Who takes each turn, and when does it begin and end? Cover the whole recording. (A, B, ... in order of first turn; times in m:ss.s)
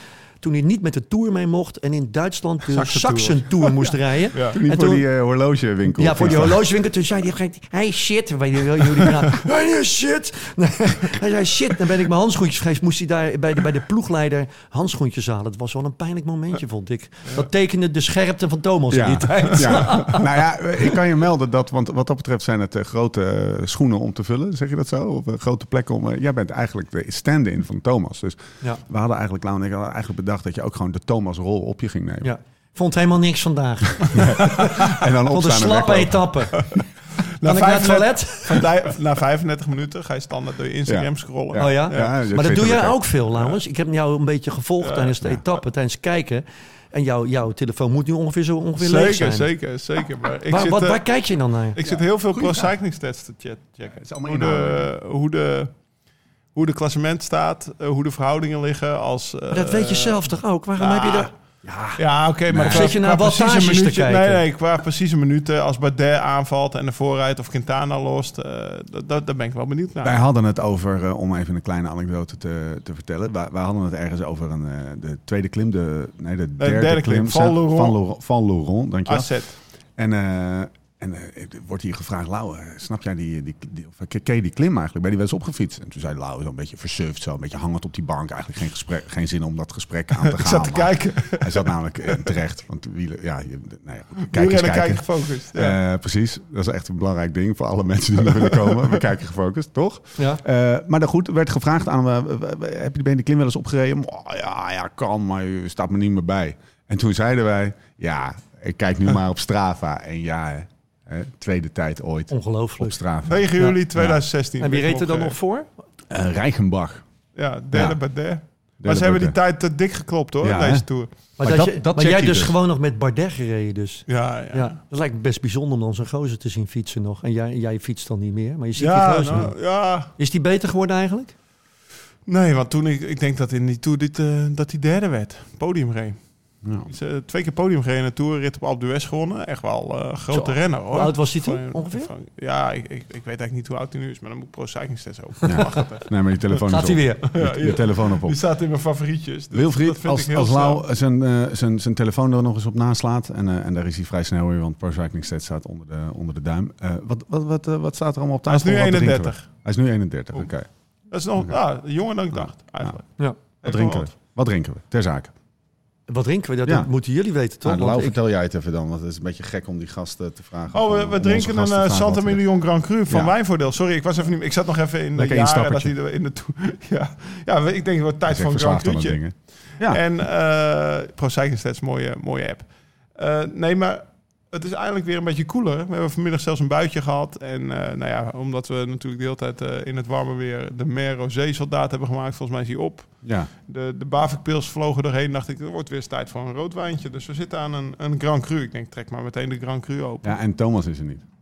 0:00.4-0:05.0 A
0:02.7-0:03.7 B
0:04.3-0:04.6 B
0:04.5-0:06.6 C
0:05.9-0:20.2 A
0:18.9-0:32.3 C
0:19.5-0:20.2 B
0:32.2-0:34.7 A
0:34.0-0:36.7 C
0:35.3-0:36.6 A
0:36.7-0:42.1 B
0:37.4-0:38.6 A
0:40.8-0:43.0 C
0:41.6-0:49.5 A
0:44.8-0:45.1 B
0:48.8-0:51.0 B
0:50.5-0:51.8 A
0:51.7-0:55.8 B
0:51.8-0:52.7 C
0:53.9-0:54.9 C
0:56.5-1:01.3 B
0:59.5-1:01.3 A
1:01.6-1:03.0 C
1:02.0-1:10.2 B
1:02.7-1:04.4 A
1:10.0-1:19.4 C
1:16.6-1:18.0 B
1:19.1-1:19.6 B
1:19.9-1:54.2 C
1:30.2-1:32.3 B
1:34.2-1:35.8 B
1:38.4-1:38.8 B
1:40.2-1:40.4 A
1:52.3-1:53.8 A
1:53.3-1:55.4 B
1:54.6-1:55.7 A
1:56.1-1:57.0 C
1:57.3-2:01.1 B
1:57.7-1:58.0 C
1:58.8-1:59.4 C
2:00.4-2:02.6 C
2:01.4-2:11.3 A
2:04.1-2:04.8 B
2:08.8-2:10.1 B
2:12.2-2:26.5 B
2:16.6-2:16.9 C
2:20.3-2:22.1 A
2:25.4-2:28.3 C
2:26.7-2:27.2 A
2:27.3-2:30.8 B
2:29.5-2:40.7 C
2:38.5-2:39.6 B
2:41.1-2:44.1 B
2:41.3-2:41.6 C
2:42.3-2:45.3 C
2:46.1-2:48.2 A
2:47.6-2:52.4 C
2:50.7-3:20.4 B
2:55.1-2:55.9 C
2:58.3-3:00.0 C
3:13.2-3:13.5 C
3:20.2-3:21.2 C